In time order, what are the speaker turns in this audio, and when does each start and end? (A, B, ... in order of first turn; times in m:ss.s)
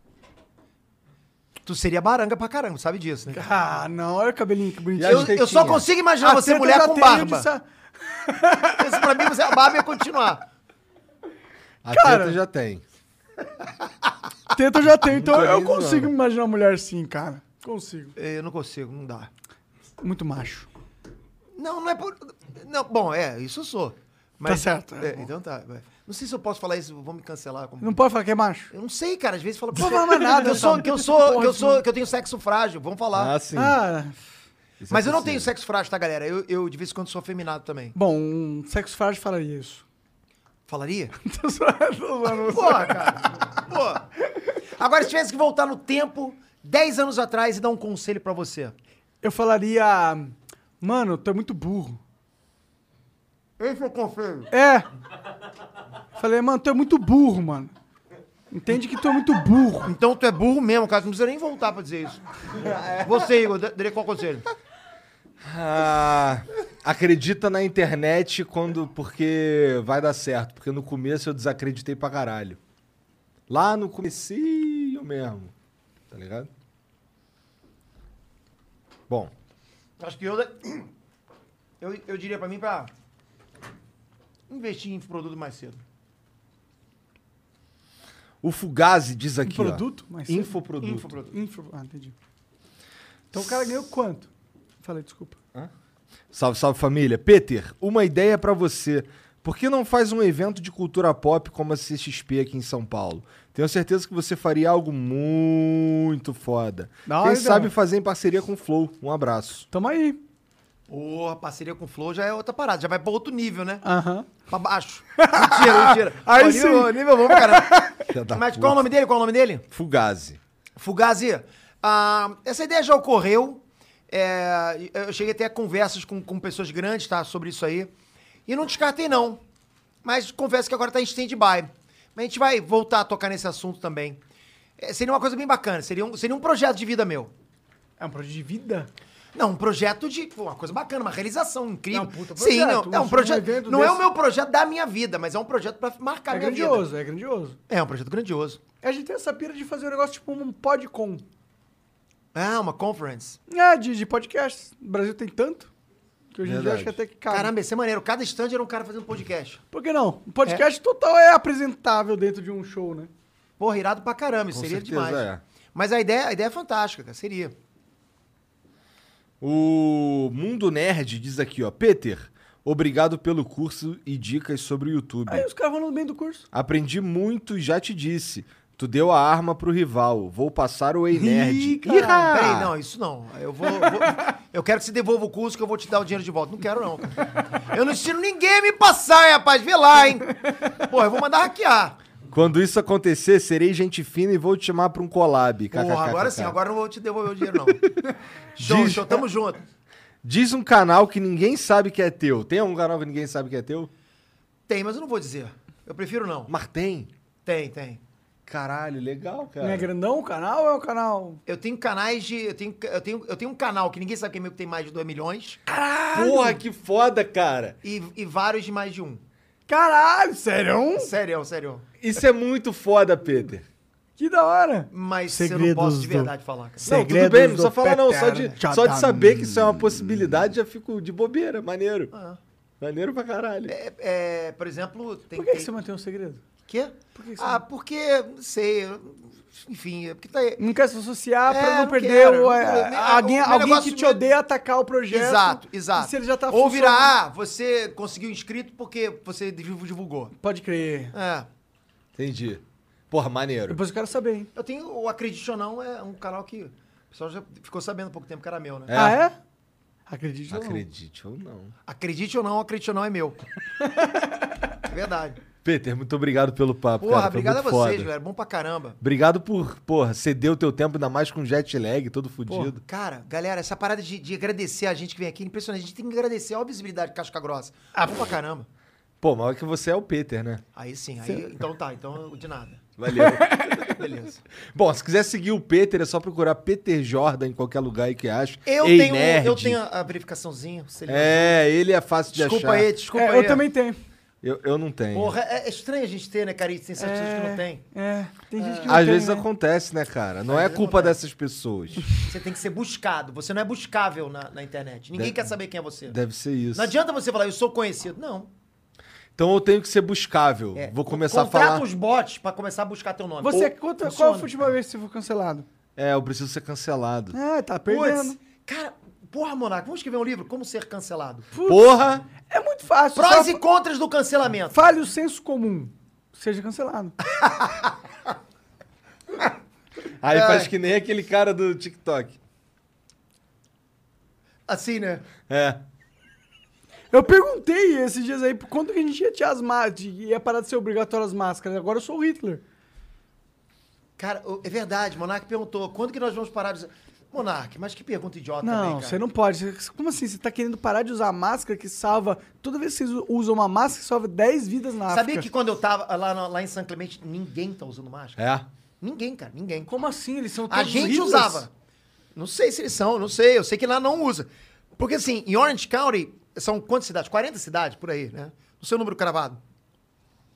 0:01.6-0:03.5 A
0:03.3-0:05.4 B
0:05.0-0:05.9 C
0:05.0-0:07.5 A
0:06.2-0:09.1 B
0:08.8-0:10.5 A
0:11.8-0:12.8 C
0:11.9-0:12.4 B
0:14.5-0:18.1 B
0:15.0-0:16.1 C
0:18.2-0:19.3 A
0:20.0-0:20.7 B
0:21.6-0:28.0 A
0:24.5-0:25.3 B
0:27.8-0:28.7 B
0:28.7-0:33.4 A
0:29.8-0:31.8 B
0:33.1-0:33.8 C
0:33.5-0:34.2 B
0:34.8-0:35.5 C
0:34.9-0:38.0 A
0:38.0-0:39.8 B
0:40.7-0:41.2 A
0:41.2-0:43.3 B
0:42.3-0:44.1 A
0:44.8-0:48.8 A
0:49.2-0:52.0 B
0:53.6-0:54.5 A
0:54.5-0:54.9 B
0:56.2-0:57.7 B
0:58.5-0:59.9 B
0:59.8-1:04.5 A
1:05.4-1:12.6 C
1:13.5-1:15.5 C
1:16.1-1:16.5 C
1:20.0-1:20.9 A
1:21.8-1:22.9 A
1:24.5-1:25.8 A
1:28.4-1:31.3 C
1:29.4-1:32.2 B
1:33.3-1:34.3 B
1:34.8-1:35.4 B
1:36.3-1:49.7 C
1:47.1-1:47.7 B
1:49.7-1:50.2 B
1:50.9-1:53.8 A
1:53.8-1:54.3 B
1:54.5-1:59.6 A
1:55.2-1:58.0 B
1:58.1-1:58.9 C
1:59.7-2:00.4 C
2:00.8-2:07.9 A
2:08.5-2:09.4 A
2:10.0-2:14.2 A
2:14.8-2:17.3 A
2:18.0-2:18.9 B
2:19.4-2:26.9 A
2:21.9-2:24.0 B
2:26.3-2:27.6 B
2:27.7-2:28.6 A
2:28.8-2:31.2 B
2:32.3-2:33.4 A
2:33.5-2:35.7 B
2:36.3-2:37.5 B
2:36.4-2:37.0 C
2:37.3-2:39.6 A
2:39.7-2:43.1 B
2:43.6-2:47.6 A
2:44.5-2:45.4 C
2:49.4-2:55.5 C
2:55.3-2:56.5 B
2:56.5-3:02.7 C
3:01.1-3:02.3 B
3:02.2-3:12.0 A
3:03.7-3:04.2 B
3:12.3-3:16.6 C
3:15.7-3:17.8 A
3:18.6-3:19.2 C
3:18.6-3:19.6 A
3:20.2-3:23.9 C
3:24.7-3:26.5 A
3:26.5-3:27.1 C
3:27.4-3:28.0 A
3:28.5-3:29.9 C
3:29.6-3:31.4 B
3:31.5-3:35.6 A
3:35.7-3:36.6 B
3:36.1-3:37.8 C
3:37.8-3:39.2 A
3:39.7-3:41.1 B
3:41.0-3:41.8 A
3:42.0-3:43.7 C
3:44.2-3:49.7 B
3:44.9-3:46.9 A
3:46.8-3:52.1 C
3:52.1-3:52.4 A
3:52.8-3:53.7 C
3:53.7-3:55.7 A
3:55.4-3:56.4 B
3:56.7-4:00.6 A
3:57.1-3:57.6 B
4:00.6-4:07.1 B
4:01.5-4:04.2 A
4:05.1-4:10.3 A
4:10.4-4:11.2 B
4:11.1-4:11.5 A
4:12.2-4:13.8 C
4:13.7-4:14.5 B
4:14.6-4:19.0 A
4:18.9-4:19.2 C
4:18.9-4:19.4 B
4:20.1-4:20.8 B
4:20.5-4:21.7 C
4:21.9-4:23.4 A
4:24.9-4:25.4 A
4:25.6-4:28.1 C
4:27.0-4:29.0 A
4:29.0-4:32.8 C
4:32.5-4:32.7 B
4:32.8-4:38.7 A
4:39.2-4:40.6 C
4:40.8-4:42.9 A
4:43.0-4:44.0 C
4:43.2-4:43.7 B
4:43.8-4:44.4 A
4:44.7-4:49.8 C
4:48.7-4:51.6 A
4:51.1-4:52.9 C
4:52.3-4:53.6 A
4:53.1-4:54.0 B
4:54.4-4:55.4 C
4:55.1-4:57.8 A
4:57.0-4:59.5 B
4:58.6-4:59.0 A
4:58.9-5:02.1 C
5:00.5-5:01.2 A
5:02.2-5:06.2 A
5:05.1-5:05.5 C
5:06.1-5:07.0 C
5:06.7-5:08.5 A
5:09.4-5:11.8 C
5:10.8-5:14.7 A
5:13.4-5:15.7 B
5:16.0-5:17.4 C
5:17.3-5:18.4 B
5:17.9-5:21.5 A
5:21.5-5:21.9 B
5:21.7-5:22.2 C
5:22.5-5:23.6 B
5:23.2-5:24.8 A
5:24.7-5:27.2 B
5:27.4-5:27.9 A
5:30.2-5:32.4 C
5:30.3-5:30.7 A
5:34.7-5:35.3 A
5:35.5-5:35.8 C
5:37.1-5:42.6 B
5:44.2-5:49.2 A
5:48.6-5:55.5 B
5:55.1-5:58.4 A
5:58.4-5:58.7 C
5:59.0-5:59.9 A
5:59.9-6:01.6 B
6:00.7-6:01.7 A
6:02.4-6:09.6 A